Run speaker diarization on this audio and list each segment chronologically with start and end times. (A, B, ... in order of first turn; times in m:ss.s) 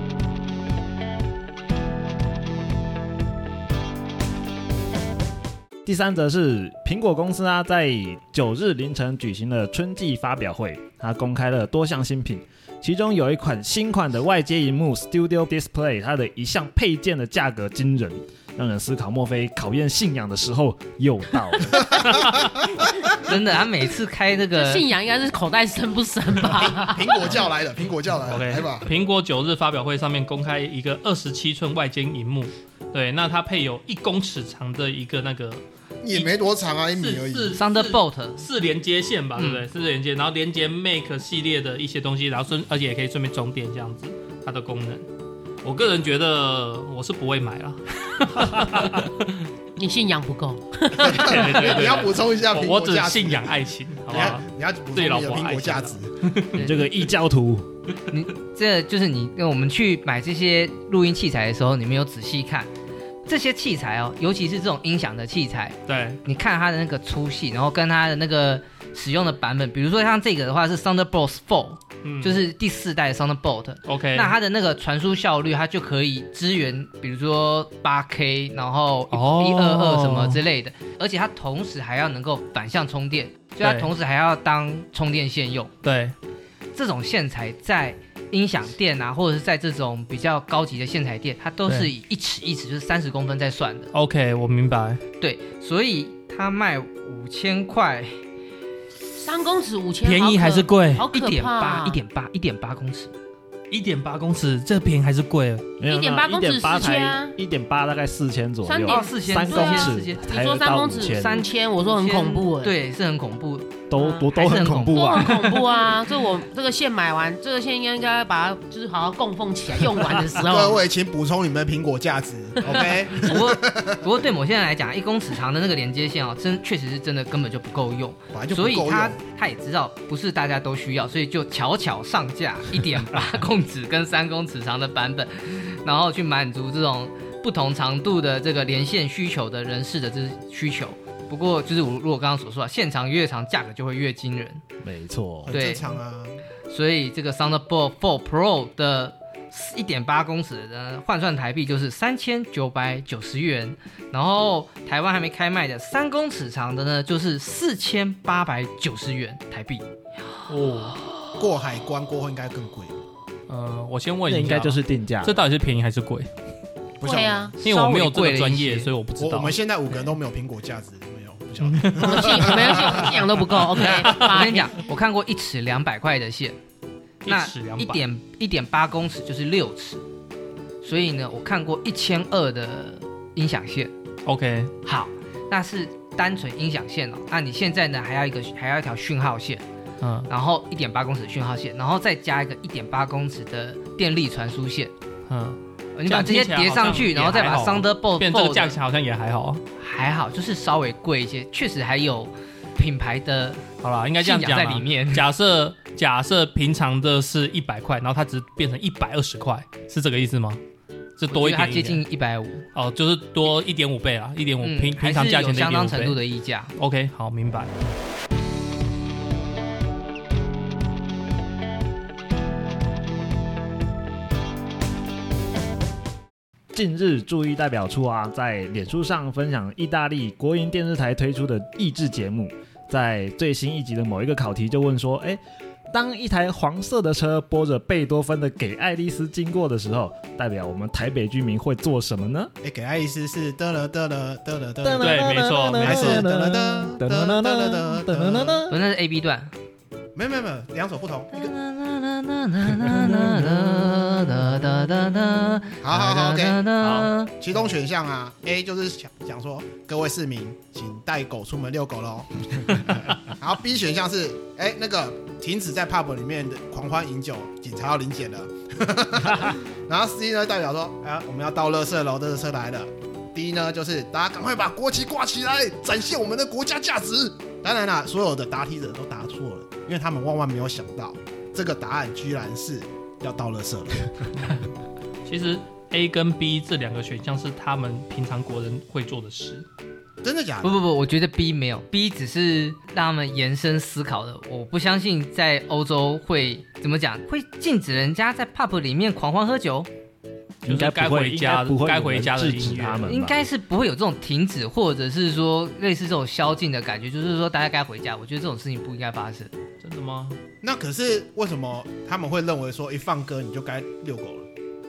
0:05.8-0:22.2 A
0:23.2-0:24.9 B
0:24.5-0:27.4 C
0:26.5-0:28.9 D
0:28.2-0:36.4 E
0:36.0-0:37.6 D
0:36.9-0:45.0 E
0:37.5-0:38.4 B
0:39.4-0:39.6 B
0:45.6-0:49.5 E
0:48.6-0:48.8 A
0:49.8-0:51.9 C
0:51.0-0:56.9 E
0:51.0-0:56.1 D
0:56.5-0:57.7 A
0:58.1-1:02.7 B
1:03.2-1:25.7 B
1:05.9-1:06.2 E
1:12.0-1:12.4 E
1:13.8-1:14.4 E
1:19.1-1:20.4 E
1:23.6-1:23.9 E
1:25.8-1:26.1 E
1:26.7-1:33.9 B
1:33.9-1:35.0 E
1:35.2-1:38.2 B
1:39.2-1:42.0 C
1:40.0-1:41.0 E
1:41.1-1:43.1 B
1:43.7-1:45.7 E
1:45.8-1:51.4 A
1:45.9-1:47.3 C
1:48.6-1:52.7 C
1:48.8-1:50.3 B
1:51.0-1:53.8 B
1:53.9-1:55.7 A
1:54.0-2:00.8 C
1:54.3-1:55.5 B
2:00.4-2:04.0 D
2:02.7-2:24.6 B
2:08.3-2:09.2 D
2:24.8-2:25.6 A
2:25.5-2:26.4 D
2:25.5-2:25.9 B
2:26.7-2:39.9 B
2:40.5-2:41.0 E
2:41.4-2:43.0 D
2:43.5-2:46.3 E
2:44.2-2:45.4 A
2:47.0-2:47.5 D
2:47.0-2:47.5 C
2:47.6-2:48.9 B
2:47.6-2:49.6 E
2:49.2-2:53.2 D
2:51.6-2:53.0 E
2:52.0-2:54.8 C
2:53.9-2:54.3 E
2:53.9-2:56.6 B
2:57.2-2:58.0 E
2:57.2-3:00.0 B
3:00.8-3:03.9 B
3:04.2-3:04.7 E
3:04.8-3:09.6 B
3:10.0-3:10.3 E
3:10.3-3:14.9 B
3:15.3-3:19.6 E
3:16.0-3:18.7 B
3:19.8-3:23.7 B
3:23.8-3:30.6 E
3:24.2-3:25.2 B
3:31.2-3:32.0 E
3:31.3-3:32.6 B
3:32.7-3:36.2 E
3:34.6-3:36.7 B
3:36.8-3:37.7 E
3:46.7-4:02.5 A
4:02.6-4:08.6 D
4:04.8-4:08.8 A
4:05.0-4:06.3 E
4:08.7-4:09.5 B
4:10.1-4:11.5 D
4:11.3-4:17.3 B
4:12.8-4:13.7 A
4:15.8-4:16.6 D
4:16.8-4:17.1 A
4:17.4-4:44.6 D
4:45.2-4:49.6 E
4:50.2-4:50.7 D
4:50.6-4:59.9 B
5:00.6-5:03.5 A
5:00.6-5:03.0 E
5:03.0-5:09.5 B
5:09.8-5:10.4 E
5:10.6-5:14.5 D